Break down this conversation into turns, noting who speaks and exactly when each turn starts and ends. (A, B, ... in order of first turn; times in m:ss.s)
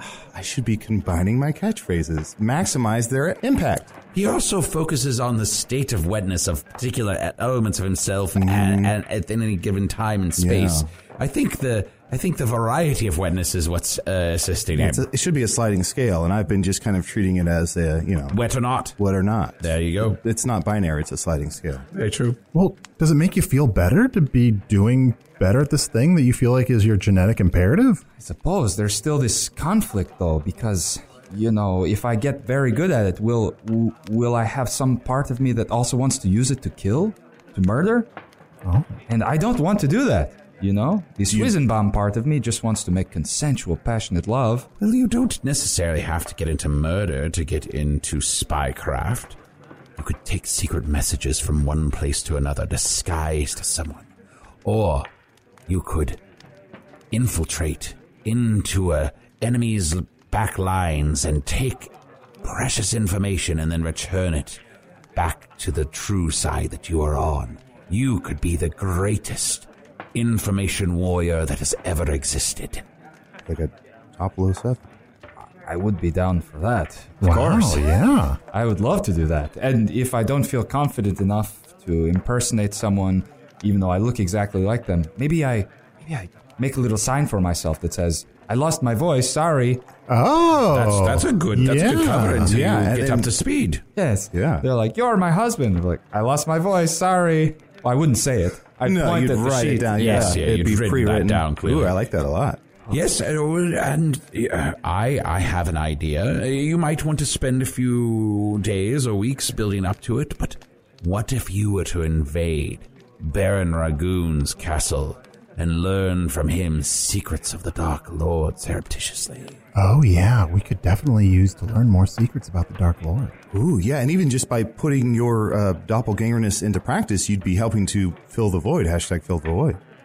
0:00.3-0:03.9 A
0:04.1-0:15.1 B
0:08.4-0:08.9 A
0:10.4-0:10.9 A
0:14.8-0:18.4 A
0:18.3-0:19.0 B
0:19.0-0:21.8 A
0:19.6-0:20.2 B
0:21.9-0:22.4 B
0:22.5-0:28.0 C
0:28.2-0:38.1 D
0:38.6-0:39.0 C
0:39.1-0:44.7 D
0:44.8-0:49.4 B
0:50.0-0:54.1 B
0:54.6-0:55.1 B
0:55.7-0:56.2 B
0:57.1-1:01.9 B
1:02.4-1:04.6 B
1:05.2-1:12.8 B
1:13.5-1:14.8 A
1:15.7-1:17.8 D
1:17.2-1:18.4 C
1:18.5-1:29.8 D
1:30.1-1:32.6 C
1:30.7-1:33.8 B
1:32.4-1:33.3 A
1:34.0-1:40.4 D
1:34.3-1:34.6 A
1:38.8-1:42.6 A
1:40.0-1:42.0 B
1:42.9-1:59.6 B
1:59.8-2:03.3 C
2:03.5-2:09.8 A